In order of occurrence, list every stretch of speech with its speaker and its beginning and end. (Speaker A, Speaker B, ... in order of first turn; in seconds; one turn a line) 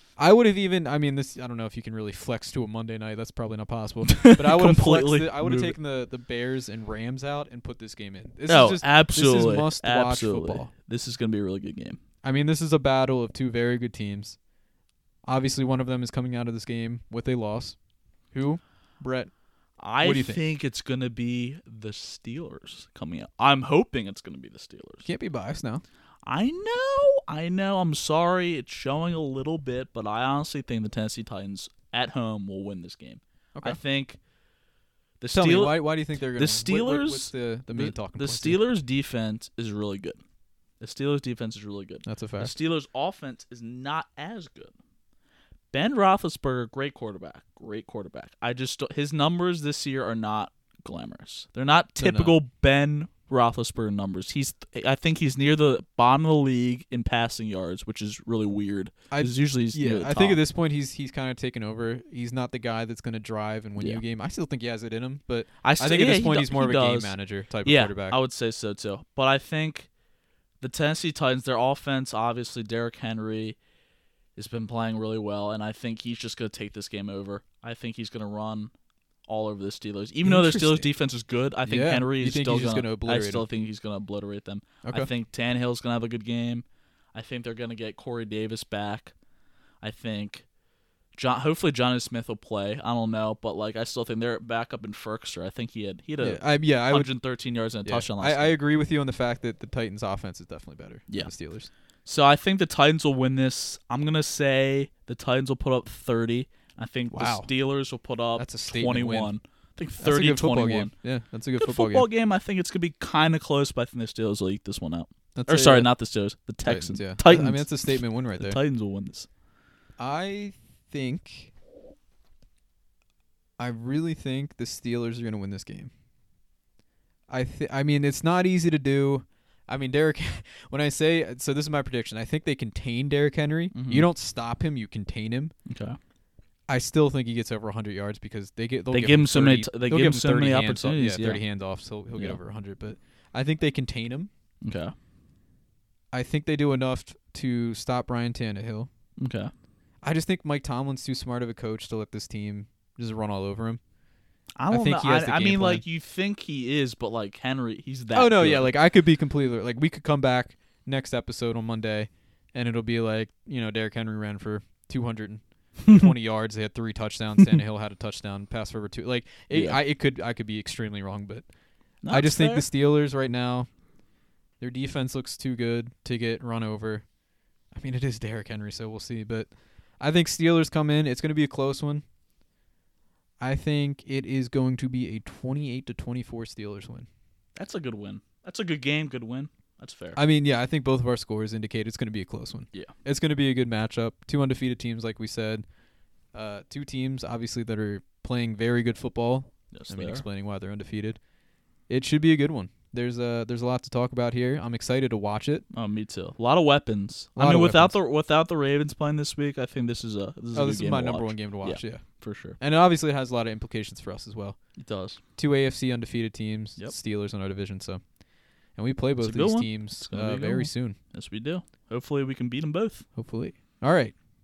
Speaker A: 0.2-10.7
Speaker B: 4.1-5.8
Speaker B: 8.5-12.0
Speaker A: 12.2-14.4
Speaker A: 15.2-17.8
Speaker A: 18.3-19.3
Speaker B: 19.8-25.1
Speaker A: 20.0-20.4
Speaker A: 25.0-25.8
Speaker B: 26.2-34.2
Speaker B: 35.2-40.2
Speaker A: 35.3-38.6
Speaker B: 40.8-44.7
Speaker A: 42.0-42.5
Speaker B: 45.7-60.4
Speaker A: 52.0-52.4
Speaker A: 59.1-68.2
Speaker B: 65.6-69.9
Speaker B: 70.6-73.6
Speaker B: 74.3-78.7
Speaker B: 79.3-89.1
Speaker A: 80.2-80.9
Speaker A: 81.6-83.4
Speaker A: 84.8-85.1
Speaker B: 89.8-90.5
Speaker B: 91.1-98.6
Speaker A: 96.2-97.1
Speaker A: 97.8-101.7
Speaker B: 102.0-110.9
Speaker A: 107.1-107.5
Speaker A: 108.4-109.3
Speaker A: 110.0-112.1
Speaker B: 111.6-117.7
Speaker A: 115.3-115.9
Speaker A: 116.6-118.6
Speaker B: 118.4-119.3
Speaker A: 120.0-121.5
Speaker A: 123.6-125.9
Speaker A: 127.3-135.5
Speaker B: 133.7-134.1
Speaker B: 135.7-136.0
Speaker A: 136.7-144.3
Speaker B: 138.9-141.4
Speaker B: 142.1-142.4
Speaker B: 144.6-144.9
Speaker A: 146.1-148.9
Speaker B: 149.2-149.5
Speaker A: 150.0-153.8
Speaker B: 154.6-158.7
Speaker A: 154.7-155.8
Speaker A: 158.1-171.4
Speaker B: 165.8-166.1
Speaker B: 169.5-169.8
Speaker B: 172.0-172.7
Speaker A: 172.1-173.7
Speaker A: 174.6-177.0
Speaker A: 177.7-182.0
Speaker A: 183.4-187.1
Speaker B: 187.6-190.2
Speaker A: 190.1-195.7
Speaker A: 196.3-201.2
Speaker B: 199.7-200.2
Speaker A: 201.9-205.6
Speaker B: 205.7-212.6
Speaker A: 207.3-208.0
Speaker A: 210.5-212.0
Speaker A: 212.6-214.6
Speaker B: 214.8-215.2
Speaker A: 215.3-218.0
Speaker A: 218.7-221.0
Speaker B: 219.2-223.1
Speaker A: 223.2-224.1